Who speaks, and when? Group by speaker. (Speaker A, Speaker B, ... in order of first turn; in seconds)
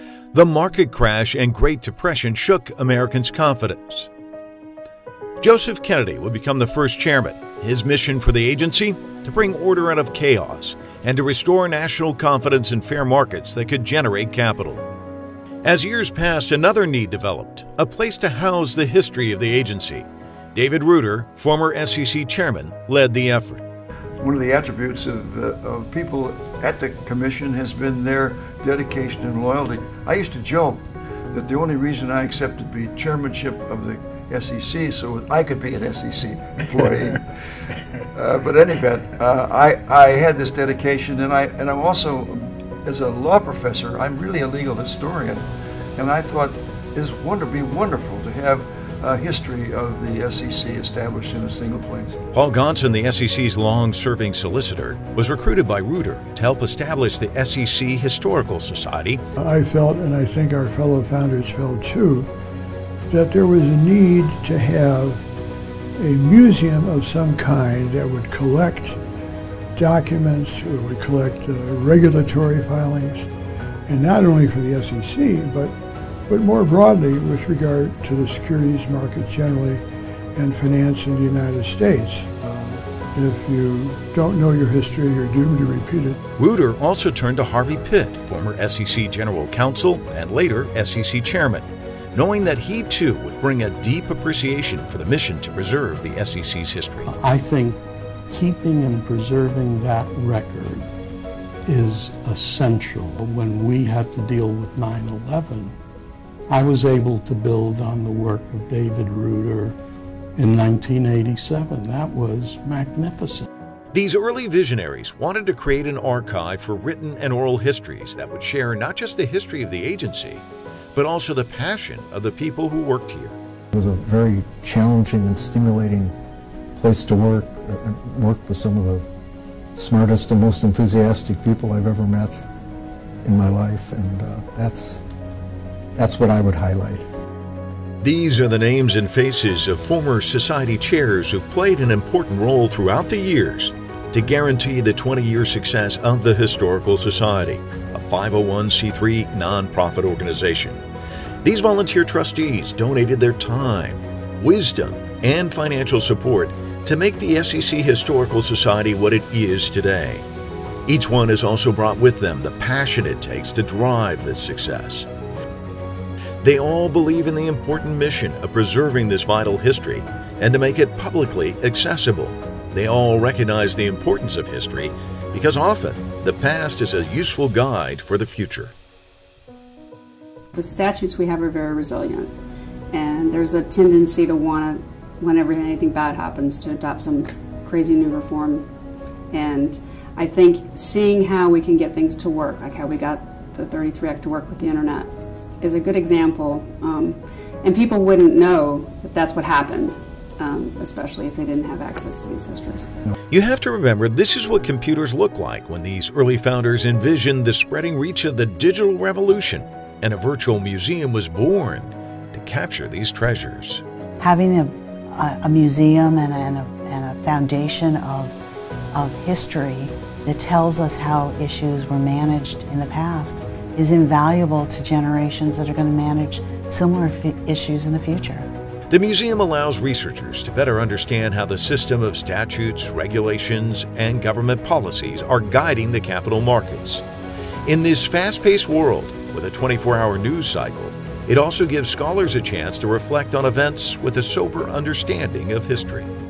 Speaker A: 0.3-4.1, 5.4-14.8, 15.6-23.6, 52.3-59.2, 86.4-97.1, 113.9-120.4, 120.9-123.4, 138.0-150.8, 151.4-160.3, 160.8-165.1, 166.4-178.7, 203.3-213.8, 228.9-237.0, 237.6-246.1
Speaker B: 24.2-37.1, 38.1-45.4, 46.0-52.1
Speaker C: 59.4-62.3, 63.1-65.2, 66.0-69.0, 69.8-73.3, 73.9-75.7, 76.3-79.8, 80.3-86.2
Speaker D: 97.0-100.9, 101.7-105.7, 106.5-109.8, 110.3-113.5
Speaker E: 123.7-126.1, 126.8-129.0, 129.7-132.4, 133.2-135.0, 135.9-137.1
Speaker F: 180.5-182.3, 182.9-188.7, 189.3-195.1, 195.6-202.9
Speaker G: 214.2-218.3, 218.9-228.5